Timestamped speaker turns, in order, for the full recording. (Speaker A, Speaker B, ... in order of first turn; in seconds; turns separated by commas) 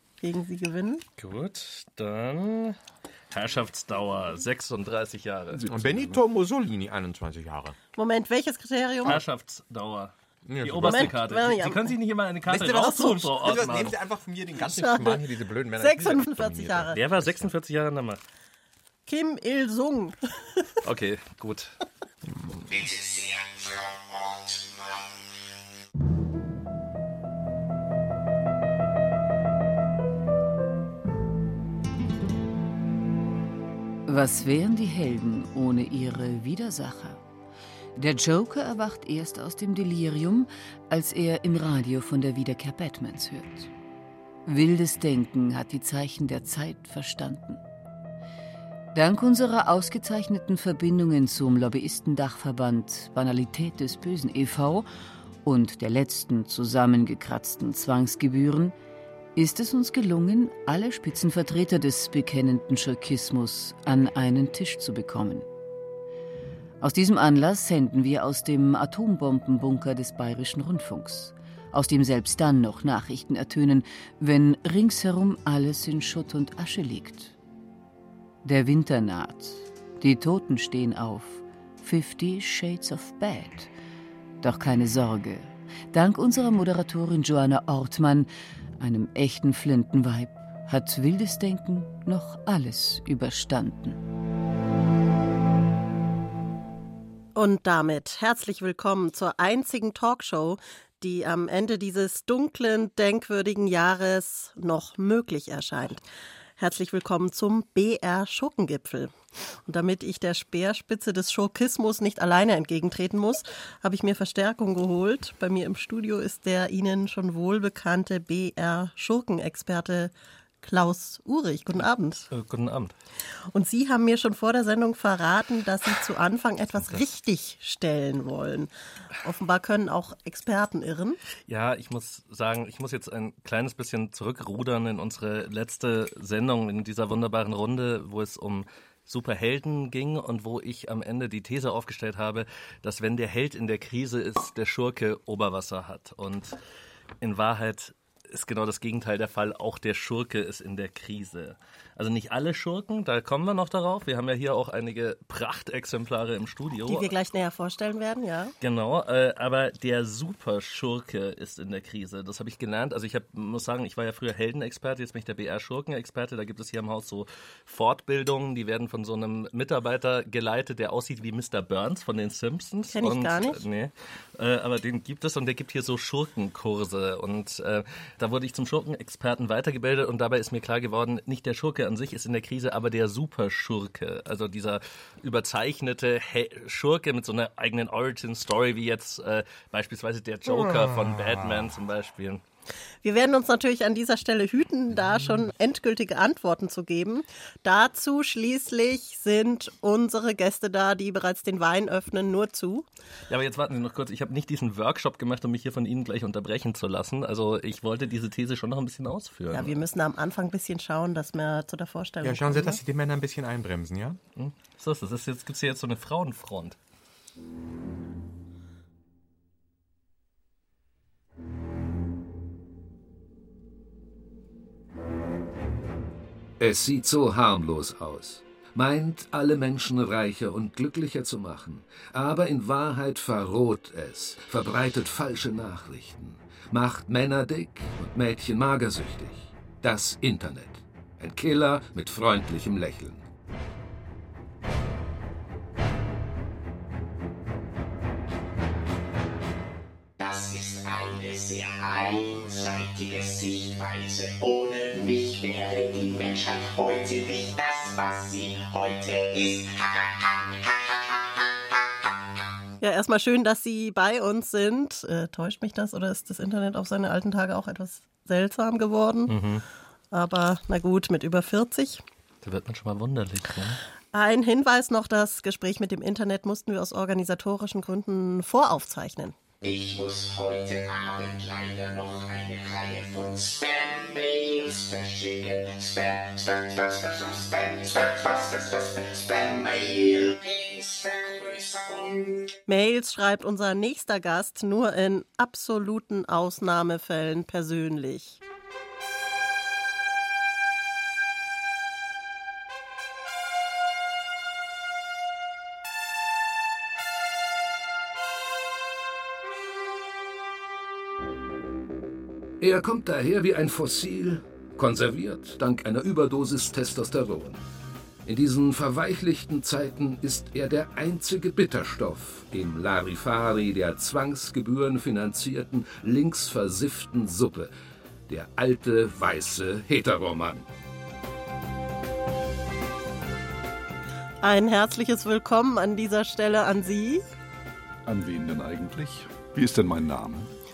Speaker A: 0.2-1.0, Speaker B: 1.2-2.8, Speaker B: 3.3-5.7, Speaker C: 5.5-6.2, Speaker D: 5.7-7.8, Speaker A: 8.0-9.2, Speaker B: 9.0-13.9, Speaker D: 10.4-11.2, Speaker A: 10.8-11.9, Speaker D: 12.5-17.4, Speaker A: 14.6-17.0, Speaker B: 16.9-18.2, Speaker A: 19.1-20.2, Speaker B: 20.8-21.8, Speaker E: 22.7-25.3, Speaker F: 34.1-37.2, Speaker F: 38.0-43.7, Speaker F: 44.5-47.6, Speaker F: 48.9-54.9, Speaker F: 55.4-58.8, Speaker F: 59.4-65.5, Speaker F: 66.8-77.3, Speaker F: 78.4-83.7, Speaker F: 84.4-88.3, Speaker F: 88.8-94.0, Speaker A: 97.3-106.0, Speaker A: 106.6-109.1, Speaker A: 109.7-122.3, Speaker B: 122.3-122.9, Speaker A: 123.5-128.7, Speaker A: 129.2-131.2, Speaker B: 131.5-146.6, Speaker B: 147.2-157.1, Speaker A: 156.9-158.5, Speaker B: 158.6-192.4, Speaker A: 172.9-173.6, Speaker D: 190.5-191.5, Speaker A: 193.0-202.9, Speaker B: 203.3-209.8, Speaker A: 209.5-212.8, Speaker D: 212.2-214.2, Speaker B: 214.4-216.8, Speaker G: 226.6-243.2, Speaker E: 250.2-260.7, Speaker A: 262.8-269.4, Speaker B: 269.3-269.6, Speaker A: 270.1-272.0, Speaker B: 272.4-273.8, Speaker A: 274.1-279.4, Speaker E: 279.6-292.5, Speaker A: 292.7-298.4, Speaker G: 312.6-317.6, Speaker G: 318.2-327.7, Speaker G: 328.3-330.6, Speaker A: 334.4-337.2, Speaker C: 338.1-340.5